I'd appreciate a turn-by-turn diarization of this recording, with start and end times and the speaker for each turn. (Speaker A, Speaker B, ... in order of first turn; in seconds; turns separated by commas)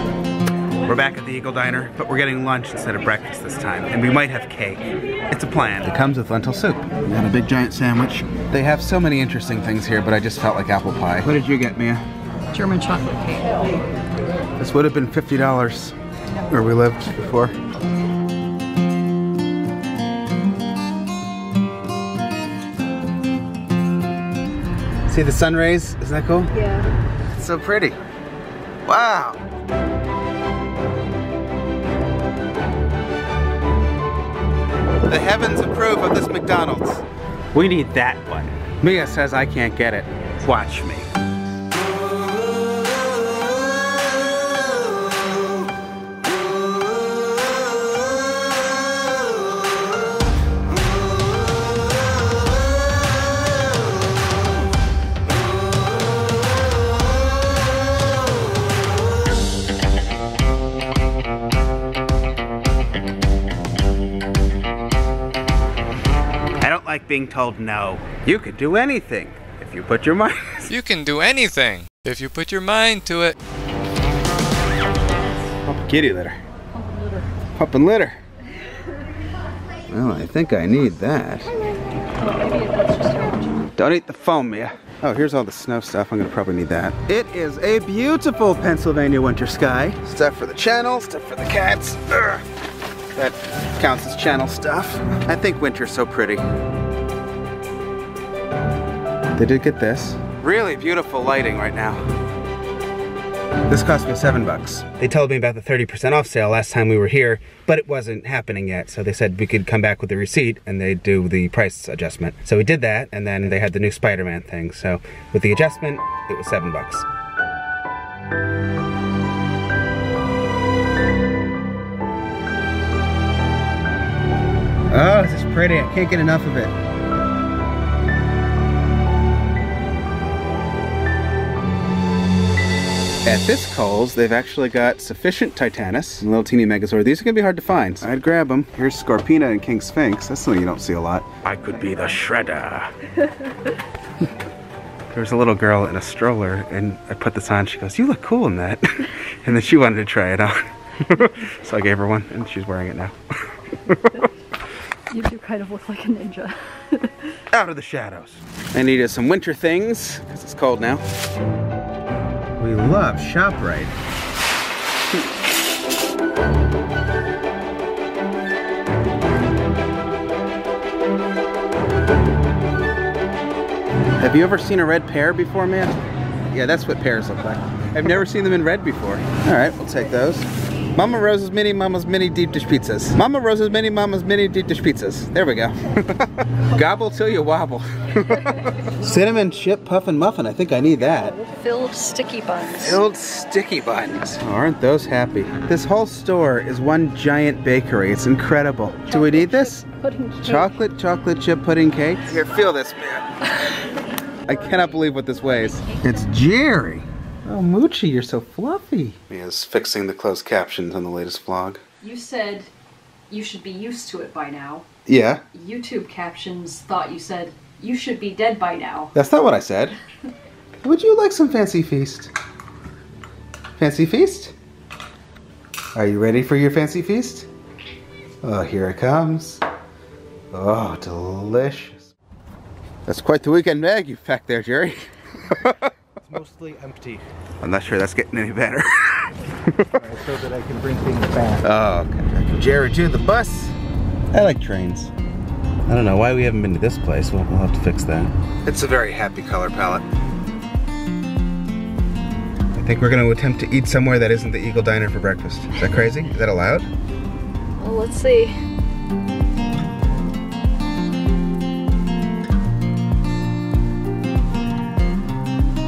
Speaker A: 0.9-12.0, Speaker B: 12.5-13.5, Speaker A: 14.6-16.0, Speaker A: 16.5-17.5, Speaker A: 25.1-26.5, Speaker B: 26.5-26.9, Speaker A: 27.4-28.0, Speaker A: 28.9-29.4, Speaker A: 35.1-41.1, Speaker A: 66.6-70.7, Speaker C: 70.7-73.4, Speaker A: 75.7-76.4, Speaker B: 76.8-77.3, Speaker A: 77.6-78.2, Speaker A: 79.9-81.6, Speaker B: 82.2-83.6, Speaker A: 83.8-92.5, Speaker A: 93.1-96.4, Speaker A: 99.4-102.0, Speaker A: 103.7-117.0, Speaker A: 124.9-126.7, Speaker A: 133.2-142.9, Speaker A: 145.1-154.2, Speaker B: 155.1-157.4, Speaker A: 157.5-161.0, Speaker A: 162.6-163.9, Speaker A: 174.2-176.0, Speaker A: 176.5-191.4, Speaker B: 191.0-193.0, Speaker A: 192.8-199.8, Speaker B: 199.0-200.8, Speaker A: 200.4-203.4, Speaker A: 204.5-211.8, Speaker B: 204.5-206.2, Speaker B: 212.0-212.7, Speaker B: 213.3-214.8, Speaker A: 215.1-215.4, Speaker B: 215.5-219.1, Speaker A: 219.1-220.0, Speaker A: 220.8-222.3, Speaker A: 223.8-224.5, Speaker A: 225.9-227.5, Speaker A: 228.4-229.6, Speaker A: 230.5-232.1, Speaker A: 233.1-235.9, Speaker D: 236.2-237.2, Speaker A: 237.6-239.9, Speaker D: 240.0-241.6, Speaker A: 241.6-243.8, Speaker A: 244.3-245.1, Speaker A: 245.9-250.0, Speaker A: 252.8-256.9, Speaker B: 257.8-258.6